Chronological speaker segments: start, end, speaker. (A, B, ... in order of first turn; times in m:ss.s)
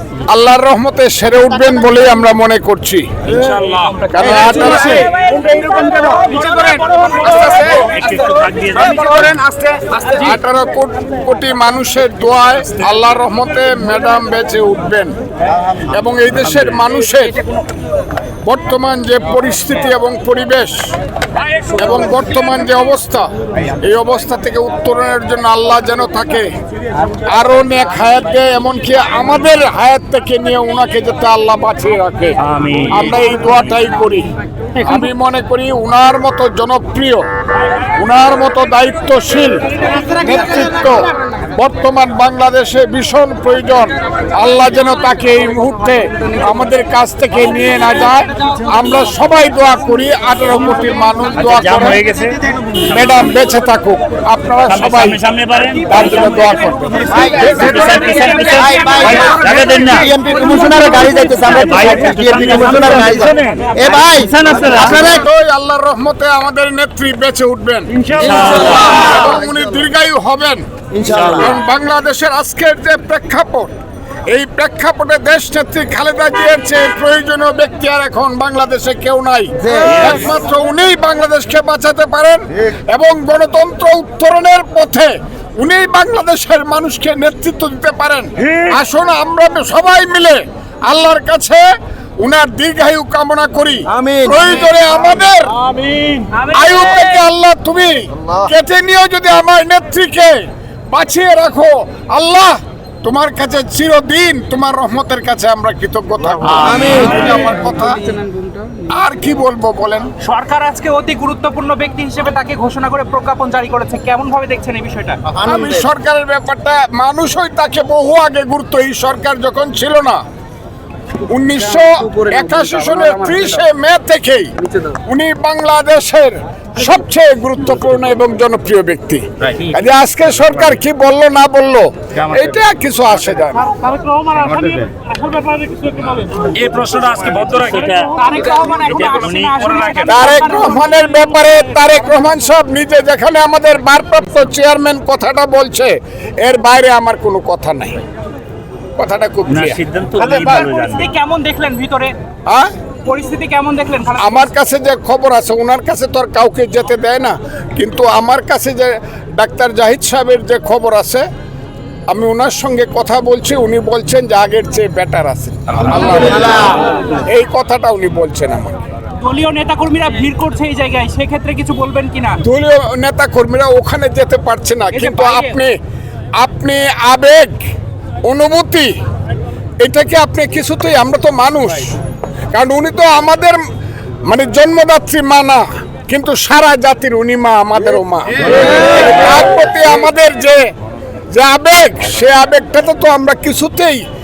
0:00.3-0:03.1 A
0:03.4-0:03.9 B
0:03.5-0:04.1 C
0:04.1-0:07.8 A
0:04.2-0:05.1 D
0:05.0-0:07.4 C
0:07.8-0:09.4 B
0:09.5-0:10.2 C
0:10.2-0:15.1 A
0:15.7-0:17.4 A
0:18.4-0:21.0 A
0:21.7-0:26.5 A
0:27.2-0:32.4 A
0:32.4-0:33.0 B
0:32.9-0:34.3 A
0:34.8-0:35.0 C
0:34.8-0:37.2 A
0:38.0-0:52.0 A
0:51.4-0:52.4 B
0:52.9-0:55.2 A
0:54.7-0:56.5 B
0:55.9-0:57.7 A
0:57.0-1:01.3 C
0:57.1-1:05.2 D
0:57.6-1:00.1 B
1:01.6-1:03.7 B
1:04.3-1:04.8 B
1:04.7-1:10.6 A
1:08.2-1:09.0 B
1:10.9-1:11.6 D
1:11.1-1:11.4 B
1:11.3-1:13.7 A
1:14.3-1:31.6 A
1:19.7-1:20.0 D
1:32.2-1:35.5 A
1:33.9-1:34.4 D
1:36.3-1:37.2 C
1:36.5-1:48.2 A
1:46.6-1:47.3 D
1:48.8-1:50.1 A
1:50.2-1:55.2 C
1:55.4-2:00.2 A
2:01.3-2:13.7 A
2:13.7-2:16.3 C
2:16.4-2:18.1 B
2:17.7-2:22.1 C
2:18.9-2:20.0 B
2:20.0-2:28.0 A
2:29.0-2:29.8 A
2:29.5-2:31.0 B
2:30.2-2:32.1 C
2:33.0-2:34.5 C
2:34.2-2:41.2 A
2:42.1-2:48.8 A
2:46.3-2:46.8 D
2:49.2-2:52.4 C
2:52.4-2:55.8 A
2:54.9-2:55.6 C
2:56.4-2:57.6 A
2:58.2-2:58.9 A
2:59.8-3:02.0 A
3:02.5-3:03.6 A
3:04.2-3:10.7 A
3:11.3-3:14.0 A